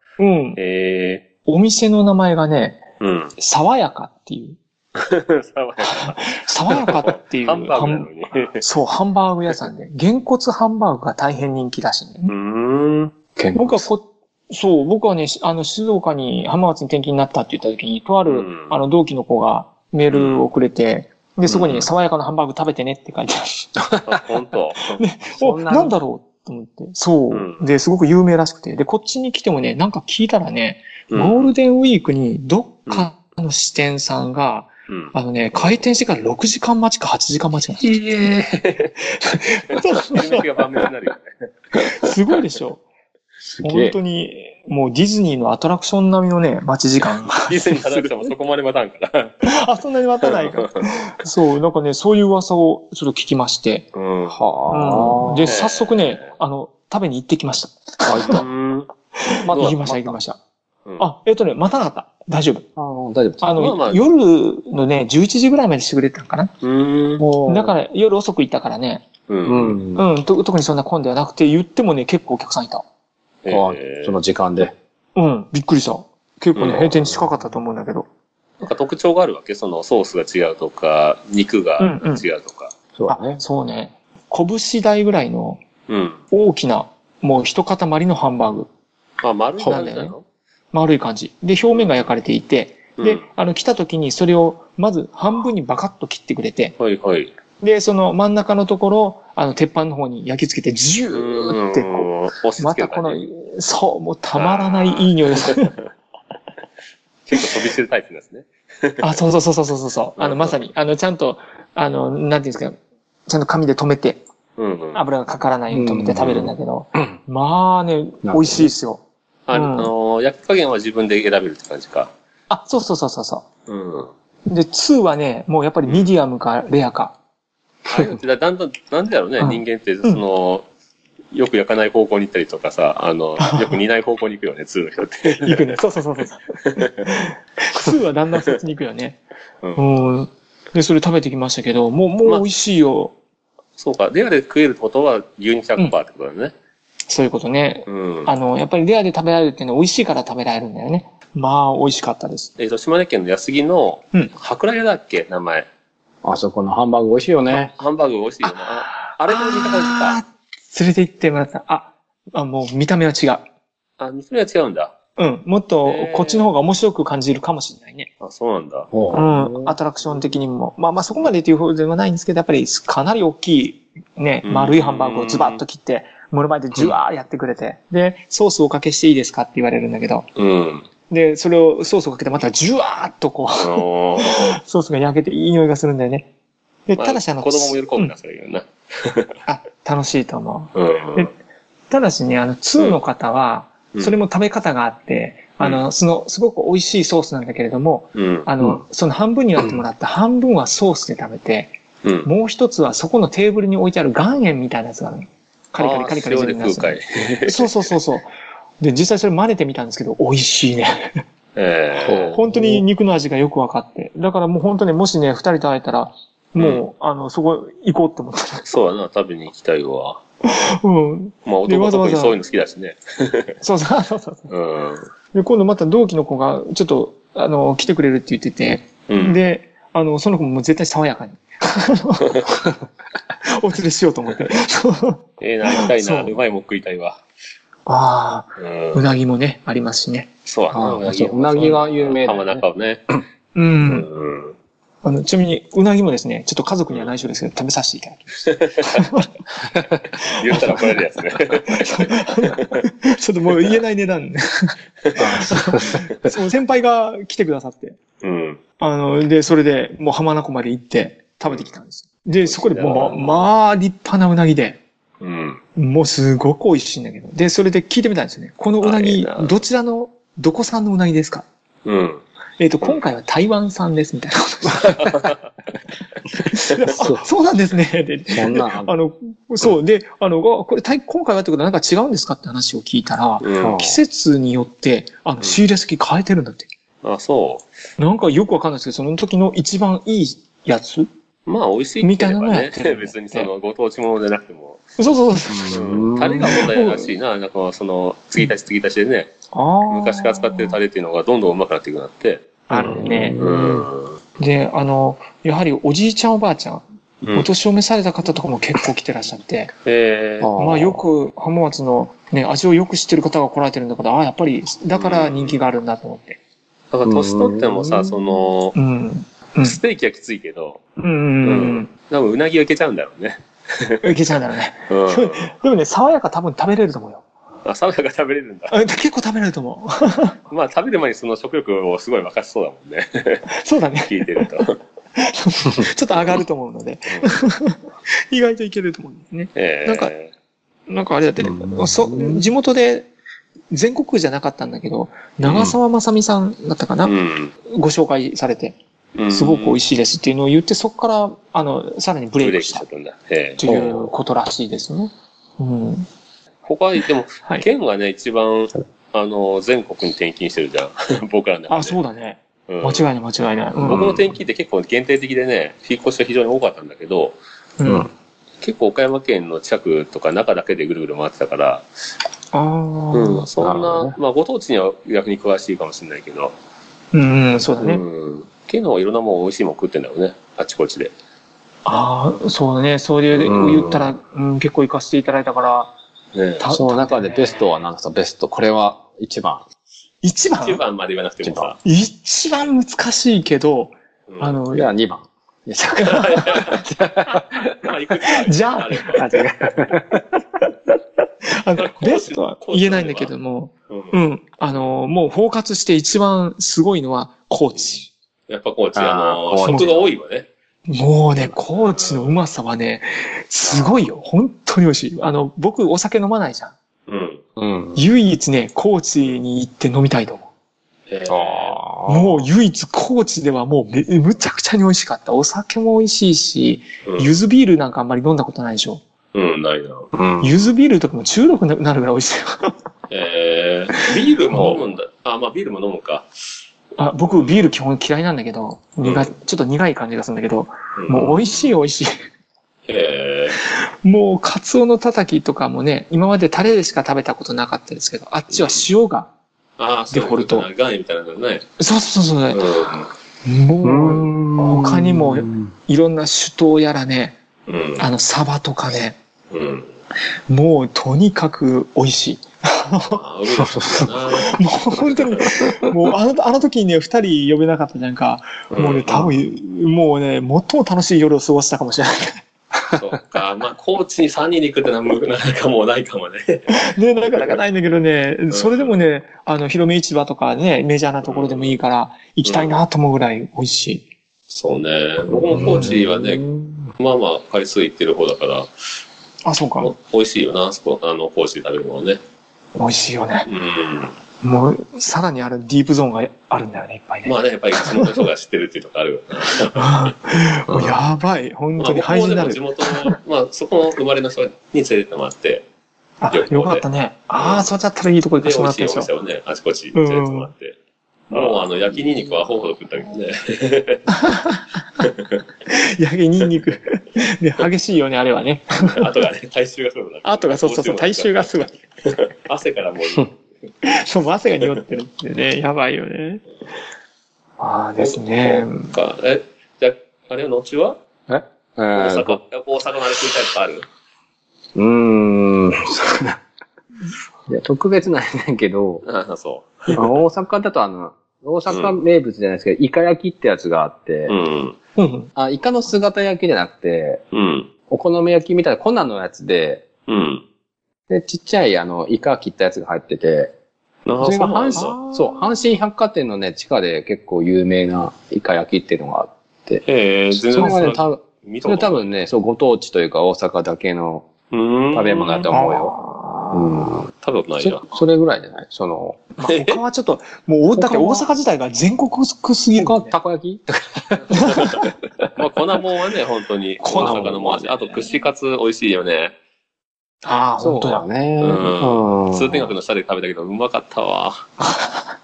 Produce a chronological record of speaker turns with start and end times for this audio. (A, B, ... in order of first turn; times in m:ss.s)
0:00.2-0:00.6 A
0:00.6-0:01.2 B
0:01.4-0:02.8 A
0:03.0-0:03.4 B
0:03.4-0:04.6 A
0:05.0-0:08.6 B
0:05.8-0:08.1 A
0:08.6-0:12.3 A
0:12.3-0:13.1 B
0:13.4-0:13.9 C
0:13.6-0:23.6 A
0:18.3-0:18.8 B
0:20.1-0:20.5 B
0:21.5-0:21.8 B
0:24.1-0:25.0 B
0:25.0-0:37.9 A
0:25.3-0:26.0 C
0:27.3-0:27.7 B
0:31.1-0:31.5 B
0:34.9-0:35.8 B
0:37.8-0:39.2 B
0:39.2-0:40.4 A
0:39.7-0:41.3 B
0:41.8-0:42.8 A
0:43.4-0:44.0 C
0:43.6-0:48.3 A
0:47.4-0:49.4 B
0:49.4-0:53.9 A
0:50.2-0:50.9 B
0:53.9-0:54.5 B
0:54.3-0:55.5 C
0:54.7-0:58.4 A
0:55.4-0:56.3 B
0:58.1-0:58.4 C
0:58.3-0:58.9 B
0:59.2-1:00.4 A
0:59.4-1:00.2 C
1:01.0-1:02.6 A
1:02.8-1:03.5 C
1:03.4-1:06.5 A
1:03.6-1:04.0 B
1:06.6-1:07.3 B
1:07.2-1:07.8 C
1:07.4-1:09.0 A
1:09.3-1:09.8 B
1:09.5-1:10.1 C
1:10.0-1:12.8 A
1:13.4-1:14.2 B
1:13.5-1:14.7 C
1:15.2-1:18.1 A
1:16.6-1:17.0 B
1:18.6-1:22.7 B
1:21.8-1:22.2 A
1:23.0-1:23.4 C
1:23.1-1:25.6 A
1:25.9-1:26.2 B
1:26.3-1:28.7 A
1:29.2-1:30.2 B
1:29.7-1:30.1 A
1:30.7-1:36.7 A
1:31.7-1:32.1 B
1:33.0-1:33.2 B
1:36.8-1:37.3 B
1:37.6-1:45.7 A
1:41.1-1:43.2 B
1:44.4-1:45.7 B
1:47.3-1:49.2 B
1:49.0-1:54.2 A
1:50.2-1:50.6 B
1:54.6-1:55.0 B
1:54.9-1:59.0 A
1:55.7-1:57.1 C
1:58.2-1:58.7 C
1:59.5-2:02.1 B
1:59.5-1:59.9 A
2:02.5-2:03.4 A
2:03.7-2:04.1 B
2:04.5-2:07.1 A
2:07.9-2:10.6 B
2:09.4-2:10.2 A
2:11.3-2:15.8 B
2:13.4-2:13.7 A
2:15.4-2:19.2 A
2:16.6-2:17.1 B
2:19.8-2:23.1 A
2:23.8-2:26.5 B
2:27.1-2:32.5 A
2:27.9-2:28.3 B
2:32.6-2:35.7 B
2:36.2-2:37.7 C
2:37.5-2:40.2 B
2:38.4-2:43.4 A
2:44.0-2:45.0 B
2:45.2-2:48.1 A
2:45.8-2:46.5 B
2:48.2-2:48.9 B
2:48.9-2:49.8 C
2:49.1-3:00.3 A
2:54.4-2:55.6 B
3:00.4-3:00.9 B
3:01.1-3:06.3 A
3:03.6-3:04.6 B
3:06.9-3:08.1 A
3:07.0-3:09.3 B
3:09.5-3:11.3 A
3:10.8-3:11.3 B
3:11.9-3:31.2 A
3:18.2-3:18.5 B
3:22.0-3:22.3 B
3:25.8-3:27.9 B
3:31.6-3:32.4 B
3:31.9-3:32.8 C
3:32.4-3:38.7 A
3:36.6-3:36.8 B
3:38.7-3:40.2 B
3:40.4-3:42.4 A
3:41.4-3:43.6 B
3:43.6-3:44.5 A
3:44.5-3:45.1 B
3:45.3-3:52.5 A
3:49.1-3:49.4 B
3:53.4-3:55.2 A
3:55.4-3:57.2 B
3:55.7-3:56.3 A
3:57.9-4:01.0 A
3:58.6-3:59.1 B
4:00.5-4:03.0 B
4:01.0-4:02.6 C
4:03.6-4:04.1 A
4:03.8-4:04.6 B
4:05.0-4:09.3 A
4:08.5-4:09.1 B
4:10.2-4:10.9 A
4:10.3-4:12.8 B
4:11.7-4:18.0 A
4:15.2-4:16.3 C
4:18.2-4:18.6 B
4:18.8-4:24.8 A
4:22.4-4:23.5 B
4:22.8-4:23.2 C
4:25.2-4:25.6 B
4:25.8-4:31.4 A
4:28.8-4:29.6 B
4:31.8-4:32.2 B
4:32.6-4:35.1 A
4:34.8-4:35.3 B
4:36.5-4:46.7 A
4:37.0-4:37.3 C
4:38.3-4:38.9 C
4:43.4-4:43.8 B
4:43.6-4:44.0 C
4:47.0-4:47.7 B
4:48.0-4:51.1 A
4:51.5-4:55.0 B
4:52.0-4:53.5 A
4:55.0-4:57.1 A
4:55.5-4:56.6 C
4:55.7-4:59.3 B
4:59.5-5:00.8 A
4:59.9-5:04.2 B
5:02.7-5:03.5 A
5:02.7-5:03.9 C
5:04.4-5:06.8 A
5:07.2-5:07.5 B
5:07.3-5:09.7 A
5:09.8-5:10.6 B
5:10.4-5:11.0 C
5:10.6-5:16.4 A
5:15.0-5:15.7 B
5:16.9-5:18.8 B
5:17.0-5:18.2 C
5:18.8-5:19.8 A
5:19.6-5:20.8 B
5:21.0-5:21.9 A
5:21.4-5:24.1 B
5:24.0-5:27.2 A
5:24.9-5:25.5 B
5:27.6-5:28.8 B
5:28.7-5:30.4 A
5:30.5-5:33.4 B
5:33.5-5:34.5 A
5:34.1-5:34.8 B
5:35.2-5:37.8 A
5:36.1-5:36.4 B
5:37.1-5:37.3 B
5:38.3-5:40.1 A
5:39.6-5:40.3 B
5:40.9-5:43.1 A
5:41.4-5:42.5 C
5:43.7-5:47.2 A
5:45.5-5:45.8 C
5:47.0-5:47.5 B
5:47.7-5:48.8 A
5:49.2-5:49.8 B
5:49.3-5:52.8 A
5:52.4-5:54.0 B
5:53.6-5:56.1 A
5:53.7-5:54.0 C
5:56.7-6:02.0 B
6:01.7-6:04.2 A
6:02.7-6:03.1 B
6:03.8-6:07.4 B
6:03.8-6:04.2 C
6:07.8-6:08.1 A
6:07.8-6:08.1 C
6:08.6-6:11.9 B
6:12.5-6:13.5 A
6:13.1-6:16.5 B
6:13.6-6:14.2 C
6:17.1-6:18.0 A
6:17.8-6:21.1 B
6:21.8-6:25.9 A
6:23.3-6:23.8 B
6:23.4-6:24.1 C
6:26.4-6:26.7 B
6:26.6-6:27.6 A
6:26.7-6:29.7 C
6:30.2-6:30.8 A
6:30.6-6:31.8 B
6:31.4-6:31.7 C
6:31.8-6:34.9 A
6:34.3-6:34.6 B
6:34.7-6:37.8 C
6:36.0-6:36.6 A
6:36.2-6:36.8 B
6:37.3-6:39.3 B
6:38.3-6:39.4 A
6:39.1-6:40.2 C
6:41.5-6:48.1 A
6:41.8-6:43.3 B
6:43.9-6:44.2 B
6:47.8-6:50.5 B
6:49.0-6:50.1 C
6:50.9-6:56.7 A
6:51.9-6:52.4 B
6:53.7-6:54.0 B
6:57.1-6:57.4 B
6:57.6-6:58.1 C
6:58.0-7:00.5 A
7:01.1-7:01.8 B
7:01.3-7:02.5 C
7:02.1-7:09.0 A
7:07.0-7:07.4 B
7:09.3-7:10.1 B
7:10.1-7:10.6 C
7:10.4-7:12.7 A
7:13.1-7:16.3 B
7:14.5-7:14.8 A
7:17.0-7:22.1 A
7:17.3-7:17.8 B
7:19.0-7:19.3 B
7:21.0-7:21.8 B
7:22.9-7:23.6 B
7:23.6-7:29.3 A
7:28.5-7:28.9 B
7:29.8-7:31.7 B
7:30.1-7:30.7 A
7:31.8-7:32.6 A
7:32.5-7:33.1 B
7:33.4-7:37.4 A
7:33.8-7:35.7 C
7:37.7-7:38.1 B
7:38.0-7:39.2 A
7:39.5-7:39.9 B
7:40.5-7:43.2 A
7:43.2-7:44.6 B
7:43.6-7:44.3 C
7:44.5-7:52.4 A
7:48.7-7:49.3 B
7:52.9-7:56.8 B
7:56.7-8:04.1 A
7:58.5-7:58.9 B
8:01.2-8:01.8 B
8:02.4-8:02.8 B
8:04.5-8:06.4 B
8:05.3-8:06.9 C
8:05.6-8:06.0 A
8:07.0-8:08.7 B
8:09.4-8:09.9 A
8:09.8-8:12.2 B
8:12.8-8:13.5 A
8:13.5-8:14.2 B
8:14.4-8:18.2 A
8:17.2-8:20.1 B
8:19.7-8:23.2 A
8:20.7-8:21.0 C
8:21.8-8:25.6 B
8:26.2-8:29.1 A
8:26.3-8:26.8 B
8:27.4-8:27.7 B
8:28.4-8:30.8 B
8:29.9-8:30.5 A
8:31.3-8:34.1 B
8:31.3-8:31.6 A
8:34.2-8:34.7 A
8:35.0-8:35.4 B
8:35.7-8:39.1 A
8:38.8-8:41.5 B
8:40.2-8:41.7 A
8:42.0-8:43.4 B
8:43.8-8:46.4 A
8:44.6-8:44.8 B
8:47.6-8:48.9 A
8:48.0-8:51.0 B
8:51.3-8:52.4 C
8:51.9-8:53.9 B
8:54.8-8:56.4 C
8:57.5-8:59.0 C
8:59.0-9:00.1 B
9:00.0-9:04.4 C
9:01.7-9:02.0 B
9:04.3-9:04.8 B
9:05.0-9:05.3 A
9:05.4-9:07.2 C
9:07.3-9:07.7 B
9:07.9-9:09.9 C
9:10.1-9:10.4 B
9:11.1-9:13.5 C
9:14.1-9:15.0 B
9:14.2-9:19.8 C
9:14.8-9:15.7 A
9:19.8-9:22.1 B
9:20.4-9:24.3 C
9:24.5-9:25.5 B
9:24.9-9:26.0 C
9:25.5-9:27.0 A
9:26.5-9:29.2 C
9:27.2-9:27.8 B
9:29.4-9:33.2 A
9:29.5-9:29.8 B
9:30.8-9:31.3 C
9:32.8-9:34.8 C
9:34.3-9:34.8 B
9:34.4-9:34.8 A
9:35.4-9:39.3 B
9:36.8-9:37.6 A
9:37.0-9:37.8 C
9:40.2-9:41.0 A
9:40.6-9:42.7 C
9:41.4-9:44.5 B
9:44.8-9:45.0 A